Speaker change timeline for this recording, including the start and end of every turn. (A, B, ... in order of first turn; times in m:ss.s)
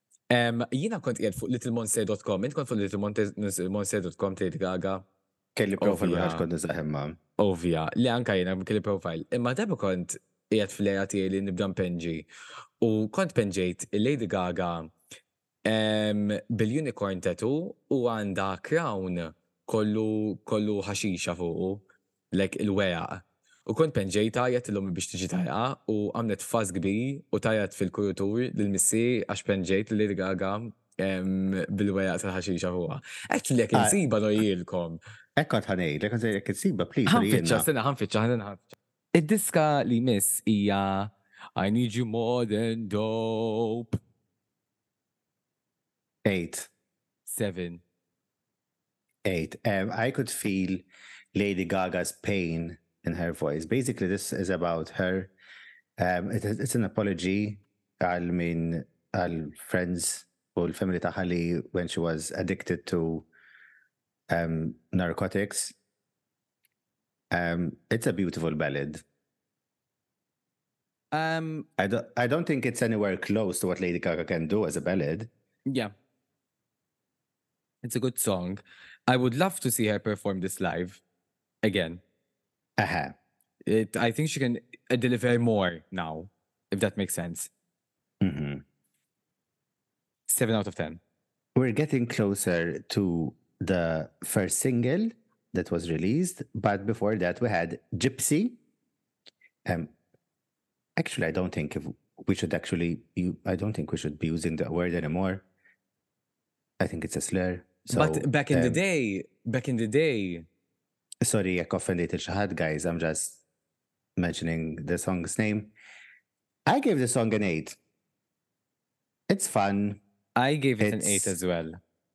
0:00.3-0:05.0 A
0:05.6-0:07.2 B
0:05.8-0:06.5 A
0:07.4-0:12.3 A
0:12.8-0:14.9 A
0:15.6-0:35.0 A
0:33.7-0:34.0 B
0:35.4-0:37.6 B
0:37.1-0:44.0 A
0:46.2-0:46.7 B
0:47.2-0:47.8 A
0:49.2-0:50.8 B
0:51.3-0:55.3 B
0:56.0-1:03.3 B
1:04.3-1:05.7 B
1:07.3-1:09.0 B
1:11.1-1:11.7 A
1:11.8-1:15.3 B
1:15.6-1:15.9 A
1:17.8-1:21.0 A
1:21.6-1:22.0 A
1:22.8-1:23.2 B
1:23.6-1:27.5 A
1:28.2-1:28.6 B
1:30.3-1:31.0 A
1:31.6-1:38.6 B
1:39.6-1:39.9 B
1:41.0-1:45.4 B
1:46.8-1:48.8 B
1:47.9-1:50.4 A
1:51.2-1:53.4 B
1:54.2-1:55.7 B
1:56.7-1:57.8 B
1:59.3-2:00.0 B
2:00.4-2:01.8 A
2:00.8-2:01.4 B